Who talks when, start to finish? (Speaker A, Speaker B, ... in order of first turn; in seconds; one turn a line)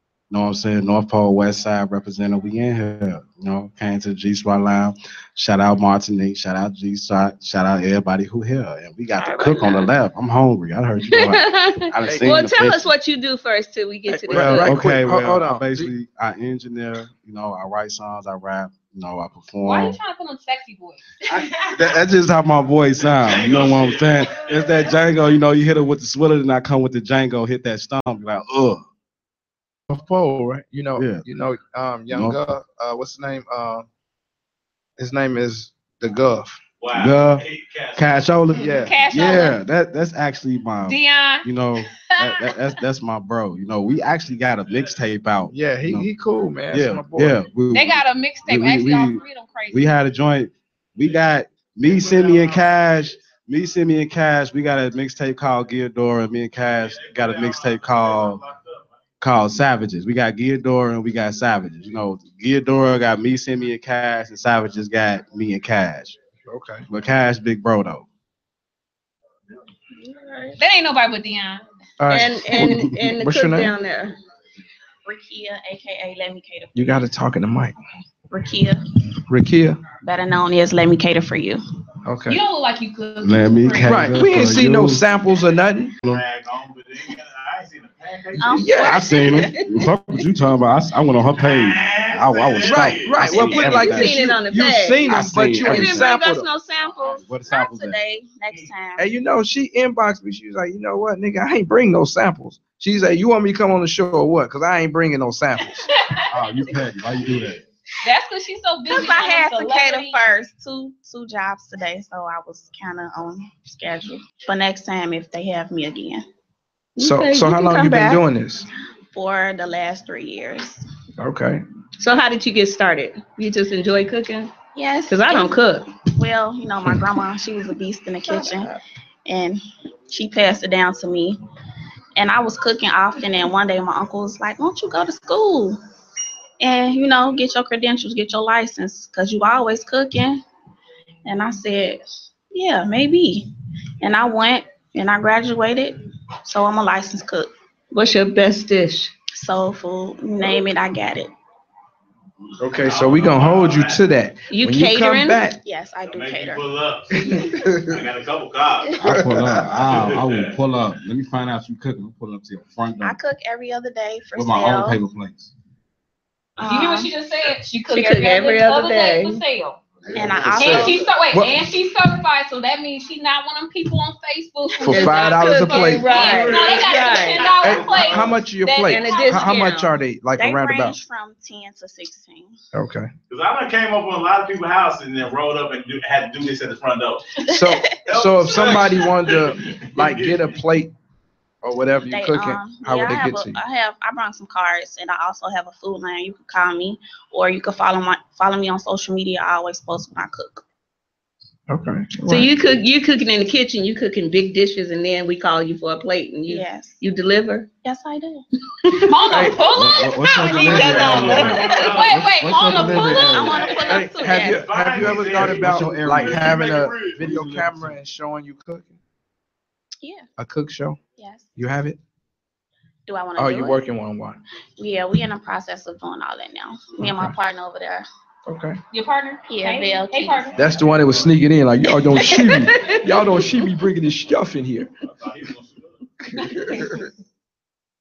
Speaker A: 0.3-12.8
Speaker B: 9.2-9.9
Speaker B: 11.1-14.8
Speaker C: 12.0-12.3
Speaker C: 14.1-15.9
Speaker A: 14.3-20.0
Speaker D: 19.6-21.6
Speaker A: 21.3-28.8
Speaker E: 23.0-24.7
Speaker C: 29.9-33.9
Speaker A: 30.9-31.2
Speaker A: 32.1-32.4
Speaker C: 35.0-36.6
Speaker E: 36.8-38.3
Speaker A: 36.9-37.4
Speaker A: 38.0-46.1
Speaker C: 38.6-38.9
Speaker D: 38.7-39.6
Speaker D: 40.9-42.5
Speaker E: 44.7-45.0
Speaker C: 45.5-47.4
Speaker A: 46.7-58.4
Speaker D: 47.7-49.9
Speaker E: 51.8-52.8
Speaker E: 56.8-59.0
Speaker A: 59.2-66.2
Speaker C: 66.5-66.8
Speaker A: 66.9-68.0
Speaker B: 70.1-70.5
Speaker D: 70.6-71.6
Speaker C: 72.0-73.7
Speaker B: 72.1-74.2
Speaker F: 75.0-77.0
Speaker C: 76.7-77.7
Speaker F: 78.3-78.8
Speaker C: 79.3-79.8
Speaker F: 80.0-81.6
Speaker C: 82.0-82.4
Speaker D: 82.3-84.1
Speaker A: 83.2-85.0
Speaker C: 83.8-85.9
Speaker E: 86.0-88.7
Speaker F: 88.4-89.2
Speaker C: 88.5-89.2
Speaker A: 88.8-94.3
Speaker E: 91.4-93.6
Speaker C: 92.7-96.5
Speaker B: 93.5-97.2
Speaker A: 95.0-96.0
Speaker A: 97.2-98.0
Speaker F: 97.5-99.1
Speaker C: 99.0-105.8
Speaker A: 106.3-107.6
Speaker D: 108.0-110.2
Speaker F: 108.9-116.2
Speaker C: 117.0-118.7
Speaker B: 117.0-118.2
Speaker F: 119.1-120.8
Speaker C: 121.2-121.6
Speaker B: 122.0-124.5
Speaker F: 124.7-125.6
Speaker B: 125.1-125.8
Speaker F: 126.2-131.4
Speaker F: 132.2-135.8
Speaker F: 136.6-140.4
Speaker F: 141.2-143.5
Speaker F: 144.0-147.5
Speaker B: 147.9-149.1
Speaker F: 149.3-151.3
Speaker C: 152.6-155.6
Speaker E: 152.7-154.0
Speaker B: 154.5-155.4
Speaker F: 155.6-156.7
Speaker E: 156.0-159.0
Speaker C: 157.3-158.0
Speaker A: 159.0-163.2
Speaker C: 159.1-159.6
Speaker E: 159.7-160.6
Speaker F: 163.0-165.0
Speaker A: 164.3-165.5
Speaker F: 166.6-167.1
Speaker D: 166.6-169.8
Speaker B: 167.9-169.4
Speaker A: 170.1-170.8
Speaker F: 170.1-171.0
Speaker D: 170.5-179.5
Speaker C: 171.3-171.6
Speaker C: 174.8-176.2
Speaker B: 174.9-177.6
Speaker E: 176.1-178.4
Speaker C: 177.6-181.0
Speaker B: 178.8-179.9
Speaker F: 180.4-182.6
Speaker C: 182.7-183.1
Speaker E: 183.3-187.2
Speaker F: 187.5-187.9
Speaker C: 187.5-190.9
Speaker E: 188.1-190.4
Speaker C: 191.6-193.6
Speaker F: 192.1-200.6
Speaker C: 201.7-202.5
Speaker B: 202.3-207.7
Speaker F: 206.5-207.0
Speaker F: 207.8-208.4
Speaker D: 209.1-213.8
Speaker C: 209.3-209.6
Speaker A: 209.7-213.5
Speaker B: 210.6-211.7
Speaker E: 210.7-212.3
Speaker F: 213.3-214.6
Speaker E: 213.4-217.4
Speaker C: 213.8-219.0
Speaker A: 214.9-217.9
Speaker C: 220.4-221.0
Speaker F: 221.2-221.5
Speaker C: 221.6-222.0
Speaker F: 223.1-223.8
Speaker C: 223.4-224.4
Speaker F: 224.8-228.1
Speaker C: 227.0-227.3
Speaker C: 228.4-228.8
Speaker D: 228.9-230.7
Speaker F: 229.5-230.6
Speaker C: 230.6-234.9
Speaker E: 230.6-231.3
Speaker E: 235.0-236.0
Speaker C: 236.3-237.0